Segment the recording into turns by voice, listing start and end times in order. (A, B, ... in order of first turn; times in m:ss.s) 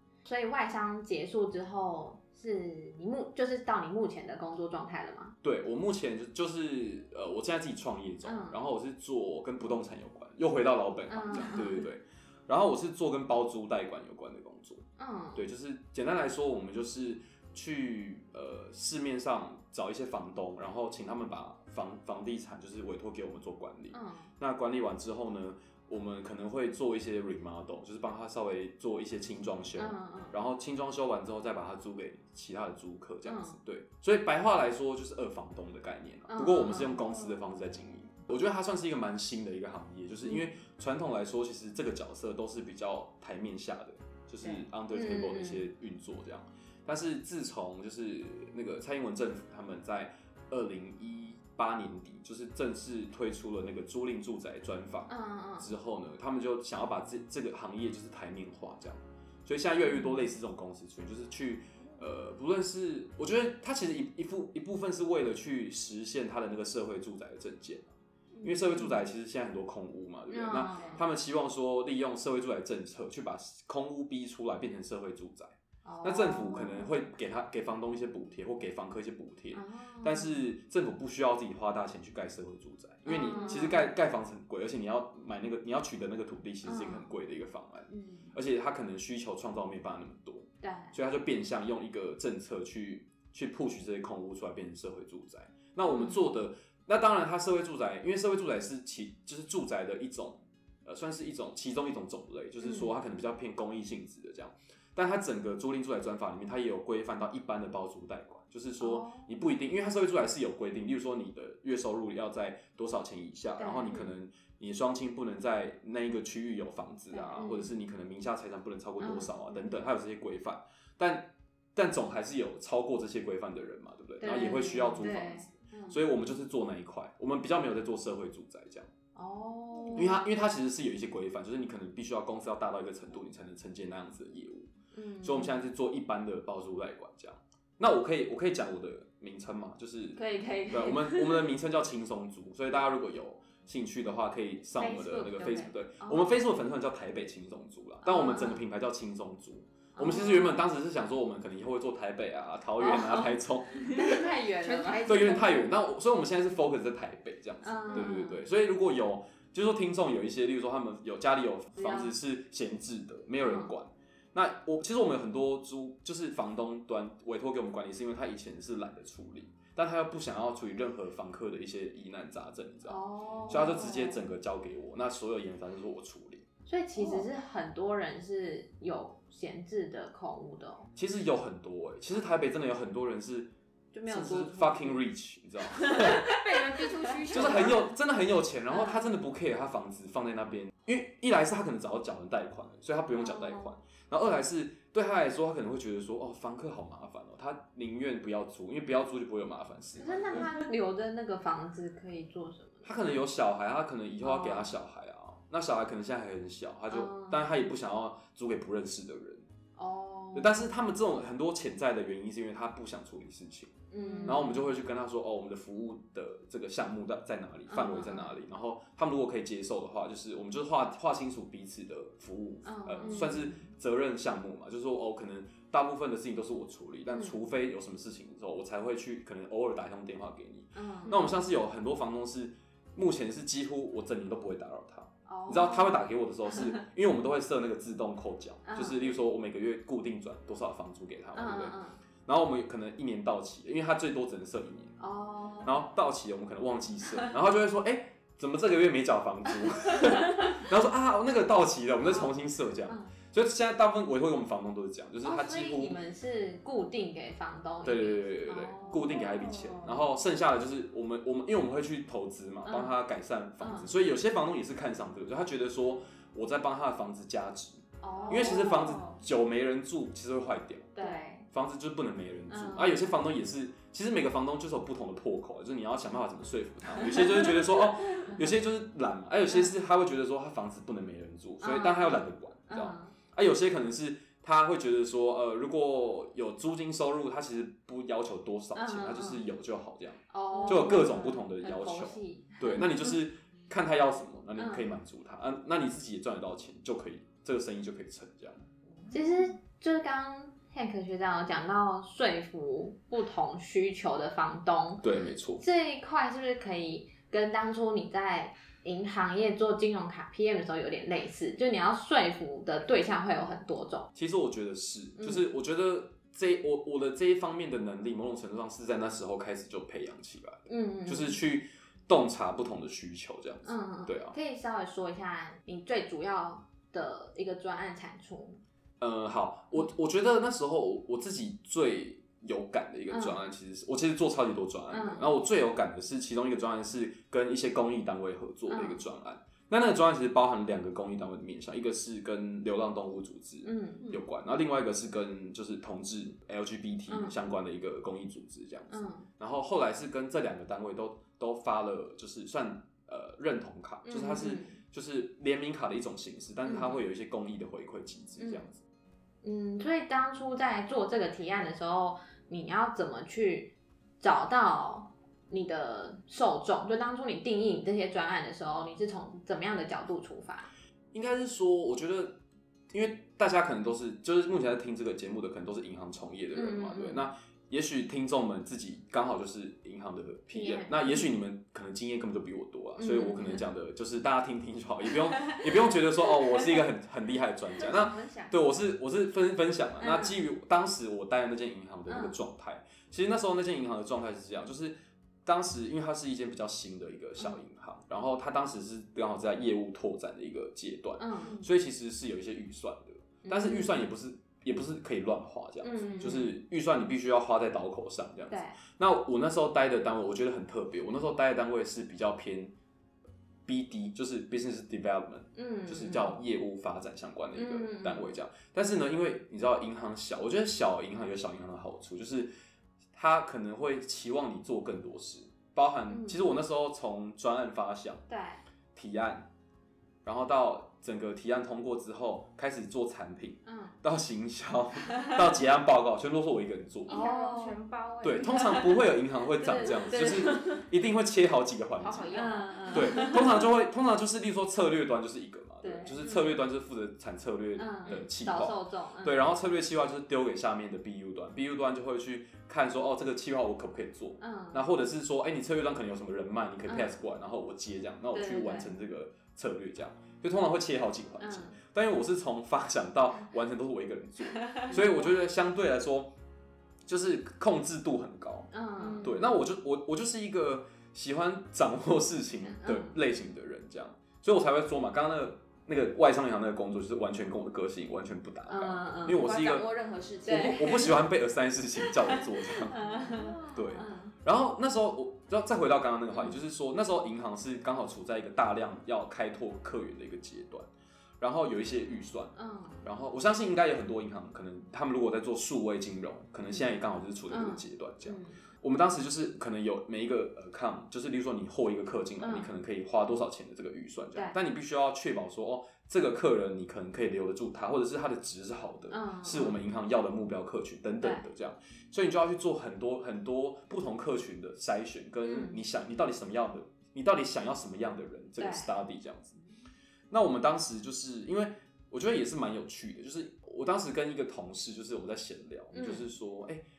0:00.2-0:05.4 A
0:05.4-1:07.9 B
0:08.2-0:08.6 A
0:11.1-0:11.9 A
0:15.0-0:15.5 A
0:23.9-0:24.3 A
0:29.8-0:30.3 A
0:33.2-0:33.6 A
0:36.3-0:37.0 A
0:44.4-0:45.6 A
0:55.1-0:55.7 A
0:59.8-1:00.3 A
1:08.4-1:09.0 A
1:08.4-2:08.9 B
1:10.3-1:11.0 A
1:15.8-1:16.9 A
1:19.5-1:20.3 A
1:23.0-1:23.9 A
1:26.6-1:27.1 A
1:27.9-1:28.3 A
1:30.6-1:30.9 A
1:35.9-1:36.2 A
1:42.6-1:42.9 A
1:48.8-1:49.3 A
1:53.6-1:54.1 A
1:57.1-1:57.7 A
1:59.0-1:59.6 A
2:04.2-2:06.0 A
2:09.2-2:10.2 A
2:09.9-2:14.7 B
2:14.9-2:15.5 A
2:15.2-2:34.2 B
2:20.2-2:21.5 A
2:24.8-2:26.3 A
2:28.0-2:28.6 A
2:30.0-2:30.6 A
2:32.8-2:35.4 A
2:33.9-2:35.6 C
2:35.0-2:56.4 B
2:37.6-2:38.4 A
2:41.8-2:42.1 A
2:43.4-2:43.7 A
2:52.9-2:54.2 A
2:56.6-3:00.9 A
3:01.0-3:03.5 B
3:03.9-3:05.0 A
3:04.0-3:06.3 B
3:05.7-3:07.8 A
3:05.9-3:07.9 C
3:07.3-3:20.5 B
3:08.7-3:09.0 A
3:13.2-3:13.7 A
3:20.0-3:23.2 A
3:22.8-3:29.5 B
3:24.2-3:24.7 A
3:26.9-3:27.4 A
3:29.8-3:30.6 A
3:30.3-4:05.0 B
3:33.9-3:34.6 A
3:37.7-3:38.4 A
3:42.6-3:43.6 A
3:50.8-3:51.3 A
3:55.3-3:56.0 A
3:58.6-3:59.2 A
4:01.3-4:02.0 A
4:05.0-4:05.8 A
4:05.6-4:16.0 B
4:12.0-4:12.3 A
4:15.2-4:19.5 A
4:17.8-4:31.0 B
4:18.9-4:19.9 C
4:22.6-4:22.9 A
4:23.6-4:23.9 A
4:28.0-4:29.0 A
4:28.2-4:29.2 C
4:31.0-4:31.4 A
4:31.0-4:31.4 C
4:31.5-4:58.6 B
4:32.5-4:33.0 A
4:37.1-4:37.4 A
4:41.6-4:43.1 A
4:48.8-4:49.4 A
4:50.3-4:53.1 A
4:50.5-4:50.9 C
4:54.6-4:54.9 A
4:59.1-5:14.1 A
5:05.0-5:05.6 B
5:14.1-5:24.4 B
5:15.2-5:15.4 A
5:20.7-5:21.4 A
5:23.6-5:28.6 A
5:29.0-5:58.8 B
5:33.1-5:33.4 A
5:34.9-5:35.3 A
5:38.7-5:39.0 A
5:43.6-5:44.1 A
5:47.1-5:47.4 A
5:48.9-5:49.3 A
5:54.0-5:54.8 A
5:56.6-5:57.0 A
5:58.4-5:58.6 A
5:59.4-6:10.7 A
6:11.1-6:52.7 B
6:16.5-6:17.2 A
6:20.5-6:21.2 A
6:23.0-6:23.6 A
6:27.8-6:28.5 C
6:30.0-6:30.4 A
6:32.1-6:32.4 A
6:41.2-6:41.6 A
6:43.4-6:44.0 A
6:45.8-6:46.5 A
6:48.5-6:48.8 A
6:53.6-7:02.5 B
6:55.5-6:56.4 A
6:57.5-6:58.3 A
7:03.1-7:08.2 B
7:06.1-7:06.5 A
7:08.3-7:08.6 A
7:09.0-7:09.5 B
7:10.2-7:17.2 B
7:13.6-7:14.0 A
7:15.1-7:15.4 A
7:17.1-7:17.8 A
7:17.1-7:19.0 C
7:18.2-7:46.3 B
7:18.5-7:19.0 A
7:19.6-7:20.8 A
7:19.9-7:20.6 C
7:22.0-7:23.5 C
7:22.3-7:23.6 A
7:25.8-7:26.6 A
7:27.8-7:29.5 A
7:34.4-7:34.8 A
7:36.9-7:37.2 A
7:38.3-7:38.9 A
7:41.4-7:41.8 A
7:44.6-7:45.2 A
7:47.1-7:59.9 B
7:48.7-7:49.4 A
7:49.0-7:49.4 C
7:52.8-7:53.1 A
7:58.7-7:59.5 A
7:59.2-8:01.0 C
8:00.4-8:01.2 A
8:00.4-8:03.0 B
8:02.0-8:04.3 A
8:03.0-8:03.9 C
8:03.7-8:10.9 B
8:11.4-8:39.6 B
8:12.6-8:13.0 A
8:17.5-8:18.6 A
8:22.4-8:22.7 A
8:29.1-8:29.8 A
8:35.4-8:35.8 A
8:38.6-8:38.9 A
8:40.3-8:46.8 B
8:45.9-8:46.2 A